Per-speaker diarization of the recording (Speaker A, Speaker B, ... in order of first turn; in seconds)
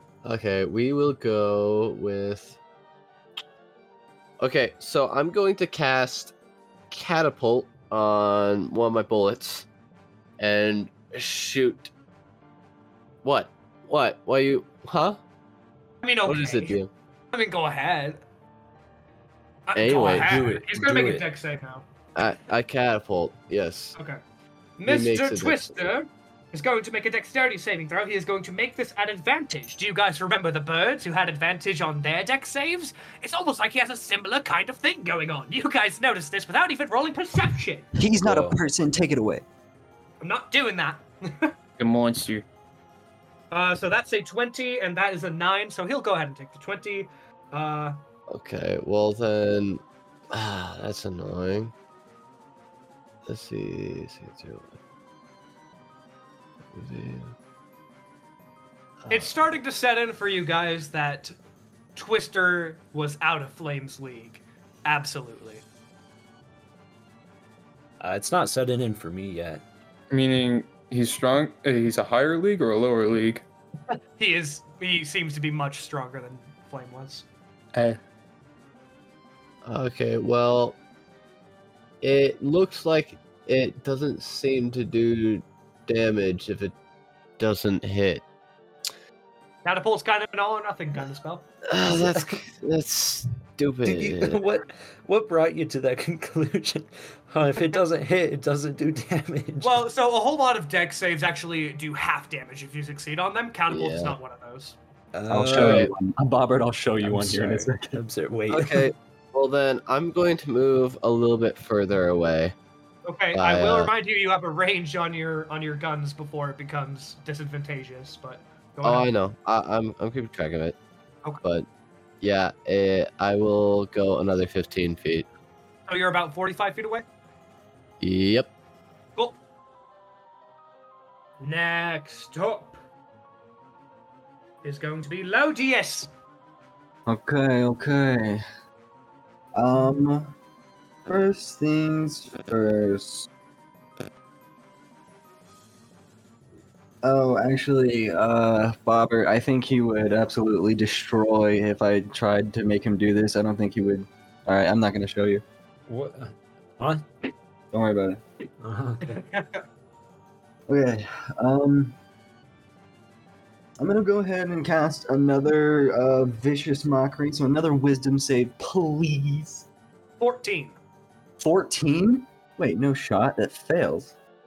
Speaker A: 0.2-2.6, 4.4-6.3, 6.9-9.7, 10.4-11.9, 13.2-15.2, 16.2-16.9, 19.7-20.5, 22.1-23.9, 24.9-25.8, 48.3-51.7, 53.3-54.7, 56.7-57.3, 59.0-59.4, 79.6-80.8, 82.0-86.7, 87.4-88.2, 91.7-94.4, 103.7-104.2, 105.5-105.9, 108.5-112.5, 113.3-113.9, 118.8-120.8, 122.2-125.3, 128.0-128.5
Speaker B: 16.0-16.8, 17.3-18.2, 19.7-21.8, 23.9-24.2, 24.8-37.9, 40.2-41.5, 43.5-48.0, 59.1-61.3, 61.9-65.6, 73.9-77.2, 89.6-92.3, 99.6-104.8, 113.0-119.1, 125.9-127.0, 131.4-132.8, 134.6-136.1, 159.1-159.6, 170.2-170.7
Speaker C: 20.2-21.3, 38.2-38.6, 68.0-69.6, 93.8-99.8, 105.1-105.9, 107.0-108.9, 155.9-157.0, 158.6-159.2
Speaker D: 38.0-39.4, 105.3-108.0, 137.1-138.4, 139.5-140.3, 141.1-143.3, 147.0-155.4, 157.7-158.2, 160.7-161.9, 163.8-169.7, 171.4-174.1
Speaker E: 41.8-42.4, 70.1-73.4, 77.7-78.0